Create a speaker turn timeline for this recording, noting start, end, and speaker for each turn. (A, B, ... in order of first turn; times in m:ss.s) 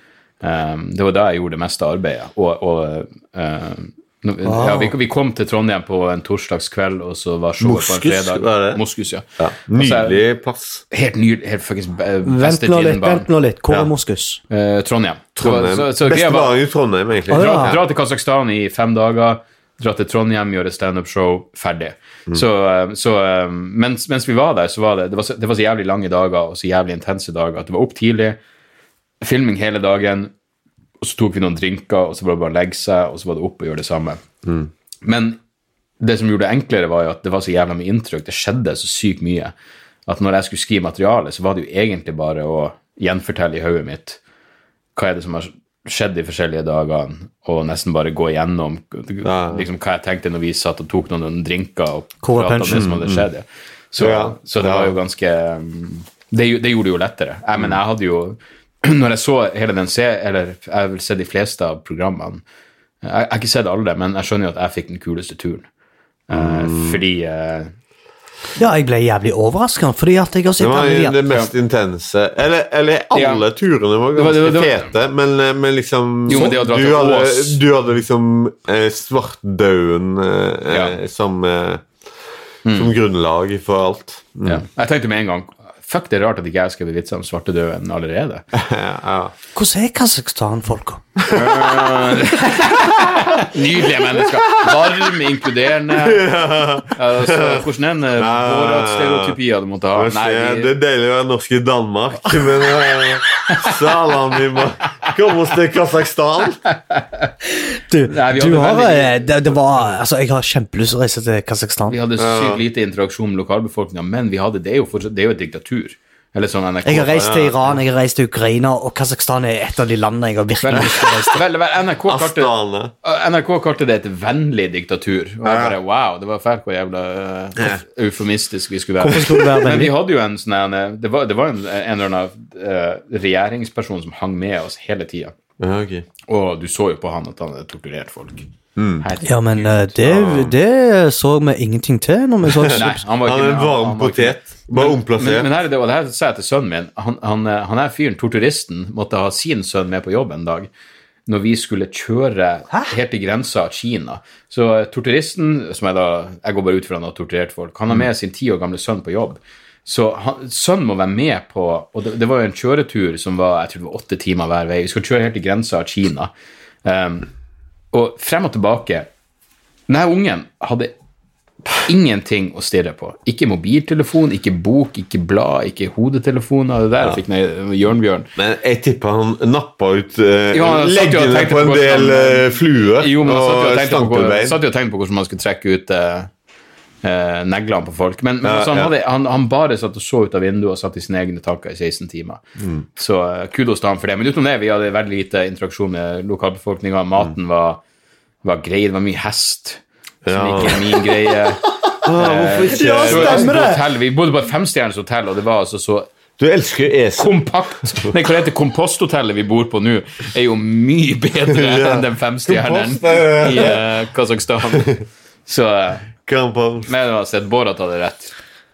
0:00.4-0:10.2 A
0:04.4-0:05.0 B
0:07.6-0:08.8 C
0:09.4-0:10.8 C
0:10.9-0:13.3 A
0:12.2-0:14.4 B
0:14.5-0:16.6 A
0:15.4-0:17.8 C
0:17.3-0:28.4 A
0:17.3-0:17.8 B
0:29.2-0:30.3 A
0:31.0-0:34.2 A
0:35.0-0:35.4 A
0:36.0-0:39.5 A
0:40.1-0:44.2 A
0:45.0-1:02.4 A
0:49.2-0:49.7 C
0:52.2-0:52.9 B
0:52.7-0:53.3 C
0:54.0-0:55.0 C
0:57.5-0:57.8 C
1:03.0-1:05.7 A
1:06.3-1:07.7 A
1:06.3-1:07.0 C
1:08.6-1:11.2 B
1:10.6-1:21.9 C
1:13.1-1:13.4 A
1:14.1-1:14.9 A
1:16.3-1:17.6 A
1:20.7-1:21.0 A
1:22.7-1:22.9 A
1:22.7-1:24.6 C
1:24.4-1:28.4 A
1:28.5-1:29.3 C
1:29.6-1:31.0 B
1:31.2-1:31.8 C
1:31.3-1:40.7 A
1:34.2-1:35.0 C
1:35.9-1:37.6 C
1:38.2-1:39.4 C
1:39.9-1:46.6 C
1:46.7-1:47.3 A
1:47.9-1:52.0 B
1:48.1-1:49.6 A
1:51.9-1:57.6 A
1:52.2-1:52.6 C
1:56.8-2:01.4 B
1:57.2-1:57.7 C
2:00.6-2:02.5 A
2:00.7-2:01.2 C
2:02.1-2:02.9 C
2:03.0-2:15.4 A
2:05.4-2:05.8 C
2:09.1-2:09.9 B
2:09.1-2:09.7 C
2:15.6-2:16.1 C
2:16.3-2:18.5 A
2:18.8-2:19.1 C
2:19.0-2:20.5 A
2:19.2-2:23.0 B
2:22.7-2:30.7 A
2:23.2-2:25.5 C
2:31.3-2:46.3 A
2:46.8-2:47.3 A
2:47.9-2:49.1 A
2:49.9-2:50.9 A
2:51.7-2:58.3 A
2:58.4-3:04.6 C
3:00.5-3:06.3 A
3:07.0-3:12.4 A
3:08.4-3:08.9 C
3:12.6-3:12.8 C
3:13.0-3:17.8 A
3:18.4-3:26.1 A
3:20.2-3:21.1 C
3:22.0-3:23.6 C
3:22.7-3:23.8 B
3:26.4-3:28.2 C
3:27.2-3:36.1 A
3:31.5-3:33.8 C
3:34.7-3:35.0 C
3:36.3-3:36.9 C
3:36.9-3:38.3 A